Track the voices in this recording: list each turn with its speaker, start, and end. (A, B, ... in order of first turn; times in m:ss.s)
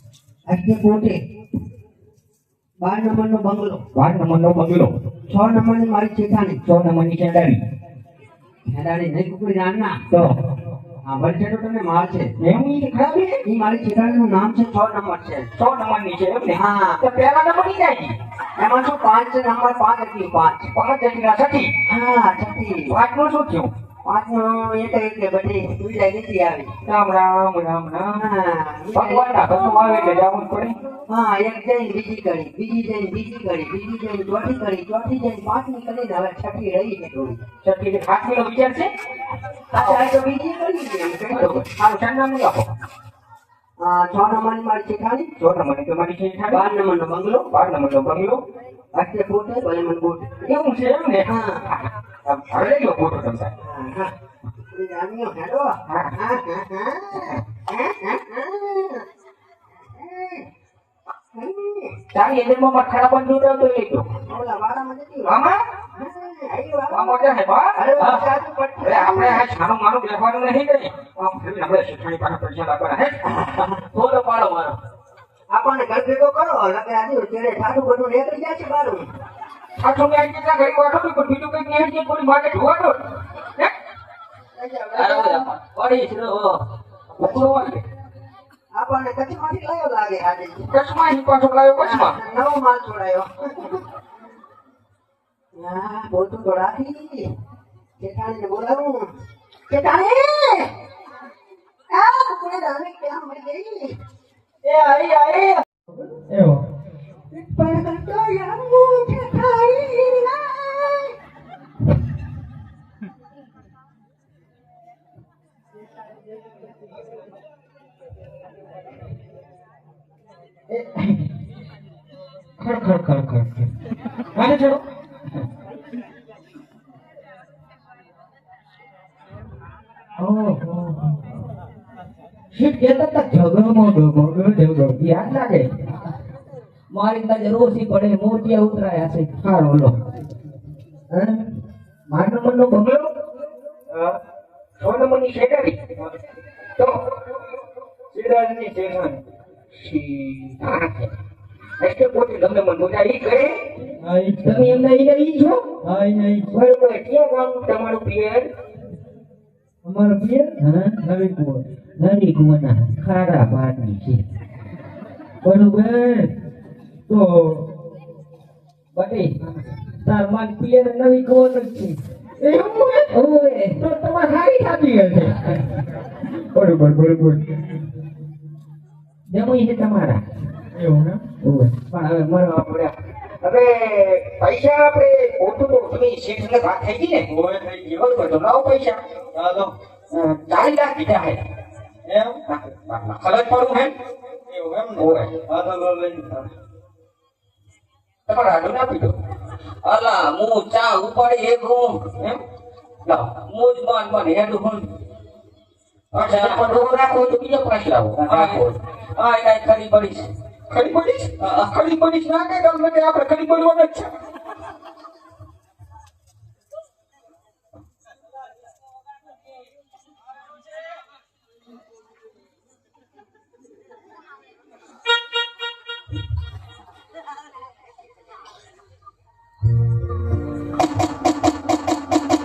0:00.5-0:01.2 A
0:02.8-0:03.8 A
0:03.9-0:04.9 B
0:05.3-0:06.6 A
0:06.6-0:07.6 B
0:08.7-0:10.0 A
0:10.1-0:10.4 B
0:11.1-0:12.3 A
0:12.4-0:13.4 B
0:13.4-0:15.5 A
0:15.6-0:18.2 B
0:16.5-0:17.0 A
0:18.6-0:20.7 A
0:20.7-0:21.7 B
0:21.9-0:23.0 A
0:22.9-0:23.7 B
0:24.0-0:26.8 A
0:26.9-0:28.2 B
0:28.2-0:29.5 A
0:28.9-0:30.8 B
0:31.1-0:37.4 A
0:37.6-0:38.9 B
0:39.7-0:41.6 A
0:39.8-0:40.1 B
0:41.3-0:42.7 B
0:43.8-0:45.3 A
0:45.4-0:46.6 B
0:46.5-0:47.5 A
0:47.5-0:48.4 B
0:48.9-0:50.3 A
0:50.4-0:51.3 B
0:51.3-0:51.7 A
0:52.2-0:53.5 B
0:53.6-0:54.1 A
0:54.7-0:59.1 A
0:55.9-0:56.2 B
0:59.8-1:00.5 A
1:01.4-1:02.0 A
1:02.1-1:04.1 B
1:04.3-1:09.5 A
1:05.2-1:05.6 B
1:06.9-1:08.2 B
1:08.8-1:13.2 B
1:13.2-1:13.8 A
1:13.9-1:14.8 C
1:15.5-1:19.1 A
1:19.8-1:23.7 B
1:24.6-1:25.5 A
1:24.9-1:26.6 C
1:27.2-1:27.8 B
1:27.2-1:27.6 A
1:27.2-1:27.6 C
1:28.7-1:30.7 A
1:30.7-1:32.2 B
1:31.8-1:33.8 A
1:35.6-1:37.3 A
1:38.0-1:39.1 A
1:39.7-1:40.7 A
1:41.9-1:44.0 A
1:44.7-1:45.3 D
1:44.9-1:45.4 C
1:46.0-1:46.6 D
1:47.3-1:51.2 A
2:00.7-2:01.2 B
2:02.6-2:03.7 B
2:04.3-2:04.8 B
2:10.2-2:11.2 B
2:12.5-2:15.7 B
2:16.9-2:19.4 C
2:19.4-2:20.0 B
2:21.1-2:21.4 B
2:22.1-2:23.1 B
2:23.9-2:24.2 D
2:24.8-2:25.8 B
2:28.1-2:29.2 D
2:29.9-2:30.5 D
2:30.6-2:31.1 B
2:31.8-2:33.6 B
2:34.0-2:34.8 D
2:34.4-2:35.8 B
2:35.8-2:36.6 D
2:36.5-2:38.5 B
2:39.8-2:41.6 D
2:40.6-2:40.9 B
2:42.0-2:44.2 B
2:45.4-2:46.3 B
2:47.1-2:47.5 D
2:49.0-2:49.4 B
2:50.0-2:55.6 B
2:53.1-2:53.7 C
2:56.5-2:57.5 B
2:59.3-3:00.2 B
3:00.8-3:01.2 D
3:01.4-3:07.3 B
3:07.3-3:07.9 D
3:07.8-3:09.0 B
3:09.4-3:09.7 D
3:10.1-3:11.4 B
3:12.1-3:12.4 D
3:12.5-3:13.9 B
3:14.5-3:16.5 D
3:15.0-3:15.4 B
3:18.3-3:19.2 B
3:19.8-3:22.1 C
3:23.1-3:24.9 C
3:26.1-3:26.6 C
3:26.1-3:28.8 B
3:28.2-3:30.3 C
3:30.7-3:34.1 B